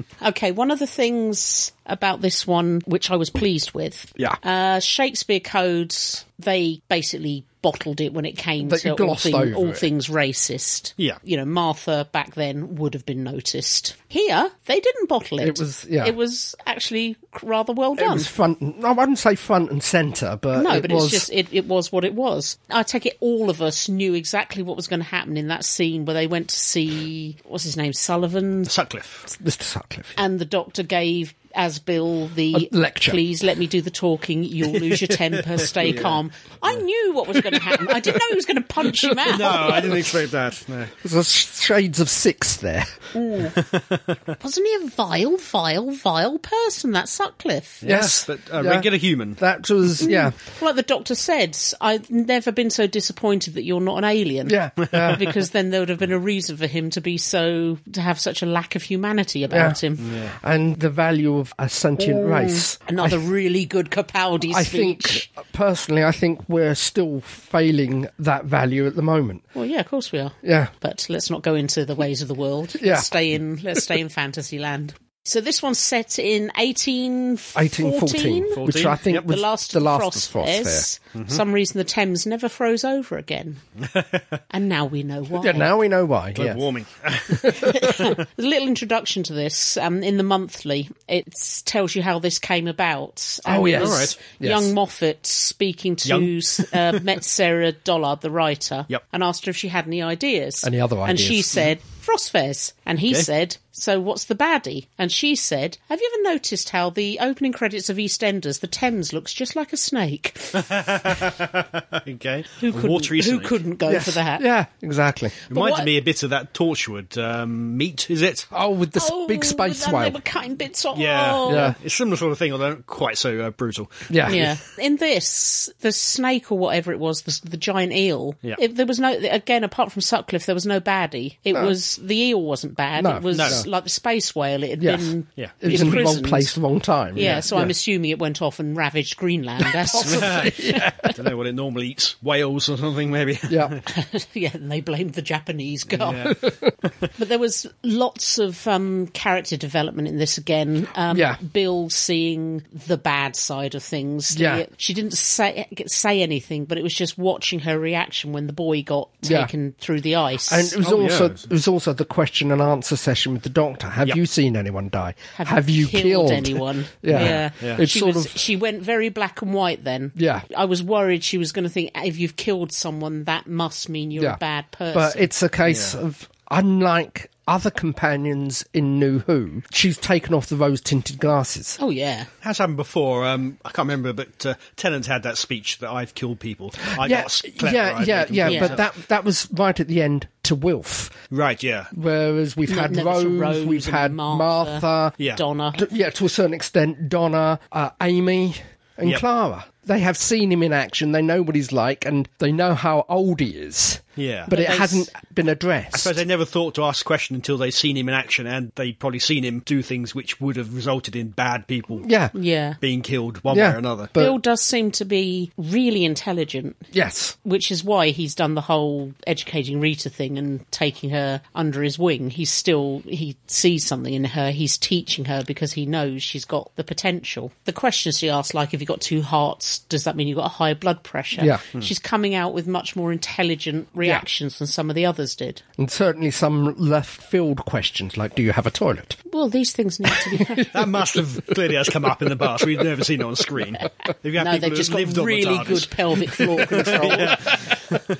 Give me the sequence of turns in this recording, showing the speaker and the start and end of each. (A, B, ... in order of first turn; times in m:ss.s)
0:00.2-0:18.3 A
0:08.6-0:09.8 B
0:15.4-0:16.2 B
0:18.0-0:21.3 B
0:20.6-0:28.7 A
0:28.7-0:29.2 C
0:29.3-0:30.2 B
0:30.2-0:40.0 A
0:32.5-0:33.2 B
0:34.9-0:36.2 C
0:39.2-0:40.9 C
0:39.5-0:39.8 B
0:41.0-0:43.1 B
0:43.1-0:43.6 A
0:43.5-0:44.2 C
0:44.4-0:47.8 A
0:47.8-0:49.4 C
0:47.8-0:50.4 B
0:50.0-1:00.1 A
0:54.5-0:55.3 B
0:54.9-0:55.2 C
0:59.5-1:03.2 B
1:00.0-1:00.3 C
1:02.0-1:05.3 A
1:04.5-1:09.4 B
1:09.6-1:23.6 A
1:10.4-1:10.7 B
1:12.8-1:13.1 B
1:17.6-1:20.9 B
1:18.6-1:19.2 C
1:21.2-1:21.4 C
1:23.8-1:24.4 C
1:24.5-1:25.7 A
1:25.4-1:26.6 B
1:26.4-1:28.0 C
1:27.3-1:27.9 B
1:27.5-1:50.7 A
1:33.5-1:34.7 B
1:33.7-1:34.2 C
1:36.0-1:37.0 C
1:40.6-1:41.6 B
1:50.5-1:53.6 C
1:52.6-1:54.4 A
1:53.9-1:55.4 B
1:55.5-1:55.9 A
1:55.5-1:58.5 C
1:58.5-2:00.2 B
1:59.0-2:01.7 A
2:00.9-2:04.5 C
2:01.5-2:01.8 B
2:04.1-2:04.4 B
2:04.3-2:16.6 A
2:13.0-2:13.7 B
2:13.3-2:13.6 C
2:14.8-2:17.7 B
2:15.4-2:16.0 C
2:17.1-2:21.1 A
2:17.2-2:17.7 C
2:19.6-2:21.2 B
2:20.0-2:20.5 C
2:21.1-2:23.9 C
2:23.5-2:23.8 B
2:23.9-2:26.4 A
2:25.9-2:27.1 C
2:27.2-2:40.8 A
2:31.1-2:31.4 B
2:34.3-2:34.6 B
2:39.2-2:39.5 B
2:40.5-2:48.4 B
2:40.8-2:41.4 C
2:45.4-2:55.3 A
2:47.1-2:47.8 C
2:50.2-2:50.4 B
2:54.9-3:01.8 B
2:55.7-2:56.0 C
3:01.8-3:02.3 A
3:02.4-3:08.8 C
3:07.0-3:11.2 B
3:08.5-3:08.8 A
3:11.3-3:11.9 C
3:11.9-3:15.2 B
3:12.7-3:15.8 A
3:15.7-3:26.2 B
3:24.2-3:24.6 C
3:24.5-3:25.1 A
3:25.9-3:32.1 C
3:32.0-3:32.3 B
3:32.3-3:32.8 A
3:32.8-3:34.1 C
3:33.5-3:34.4 B
3:34.2-3:36.8 A
3:36.9-3:37.4 B
3:37.4-3:55.6 A
3:51.4-3:51.6 B
3:55.8-3:59.2 B
3:59.3-4:00.8 A
4:00.1-4:00.7 B
4:00.7-4:08.0 C
4:04.4-4:07.4 A
4:06.6-4:07.6 B